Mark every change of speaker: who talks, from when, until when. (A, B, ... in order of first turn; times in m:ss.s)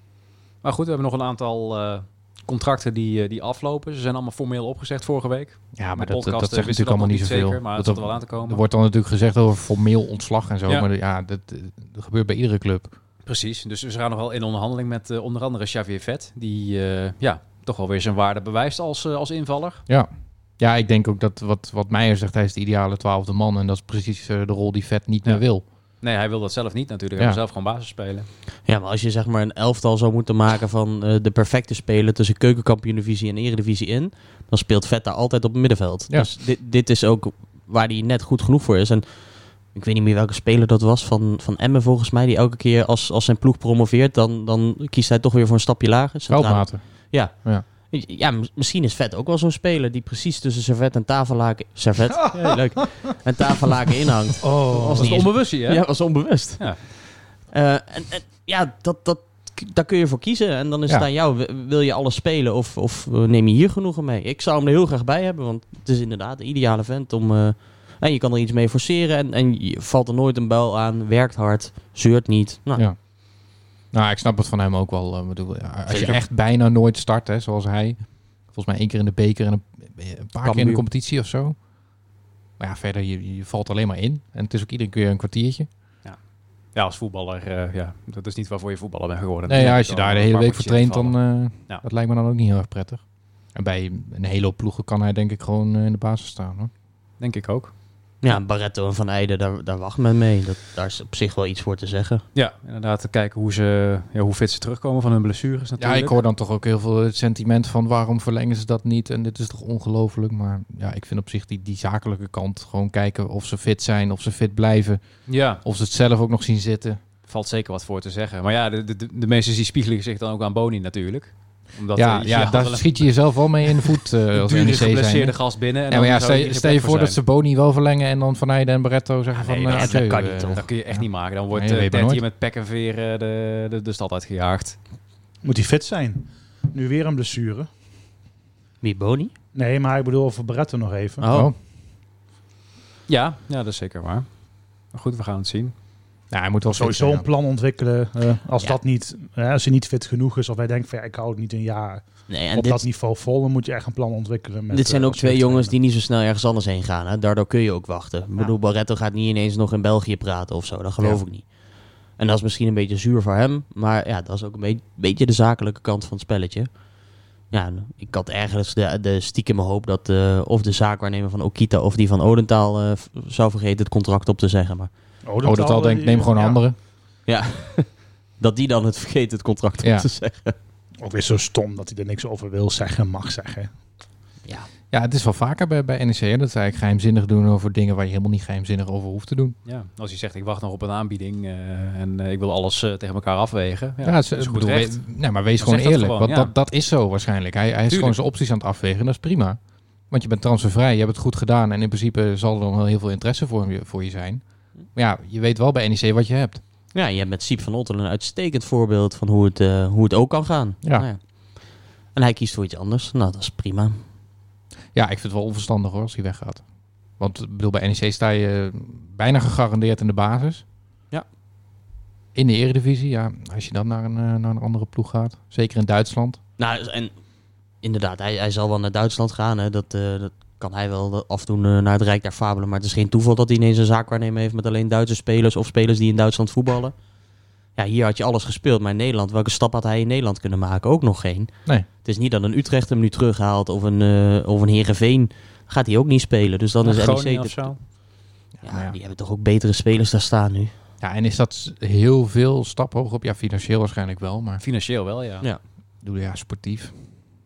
0:00.6-0:08.6 A
0:05.8-0:12.9 B
0:13.2-0:19.8 A
0:19.9-0:25.6 B
0:26.0-0:28.3 A
0:28.6-0:57.0 C
0:46.3-0:47.6 B
0:54.4-0:55.2 D
0:54.7-0:55.8 A
0:57.5-1:12.8 C
1:13.9-1:21.6 B
1:15.9-1:16.2 C
1:20.4-1:20.8 C
1:22.6-1:25.7 B
1:26.7-1:31.8 A
1:29.5-1:33.0 B
1:33.5-1:36.7 B
1:37.2-1:37.7 A
1:38.2-1:42.2 C
1:42.3-1:46.2 A
1:45.8-1:55.0 B
1:55.3-1:55.6 A
1:55.6-1:57.0 B
1:57.3-2:07.2 A
2:01.9-2:12.2 B
2:09.4-2:10.6 C
2:09.7-2:14.8 A
2:15.4-2:17.7 D
2:18.8-2:19.3 C
2:19.5-2:21.2 D
2:21.2-2:21.5 C
2:23.1-2:24.3 A
2:24.9-2:25.7 A
2:26.3-2:27.2 B
2:26.7-2:32.0 D
2:32.3-2:32.8 C
2:32.5-2:35.7 D
2:34.7-2:41.5 C
2:42.2-2:46.7 C
2:47.5-2:54.9 C
2:55.2-2:56.6 D
2:55.4-2:56.8 B
2:57.3-2:57.9 C
2:58.4-3:00.5 C
2:59.8-3:00.1 B
3:01.0-3:03.7 D
3:04.9-3:09.6 B
3:09.6-3:15.0 A
3:14.0-3:19.6 B
3:15.6-3:16.5 A
3:17.9-3:18.2 A
3:20.1-3:24.4 B
3:24.9-3:26.6 B
3:26.9-3:31.2 C
3:32.1-3:34.0 C
3:34.9-3:36.6 B
3:37.2-3:40.6 B
3:42.3-3:46.4 B
3:46.6-3:47.1 C
3:47.8-3:56.9 C
3:57.8-4:01.5 C
4:02.0-4:07.7 C
4:06.8-4:07.8 A
4:08.6-4:09.0 B
4:08.6-4:10.7 C
4:11.0-4:14.6 B
4:14.6-4:15.4 A
4:16.0-4:16.9 B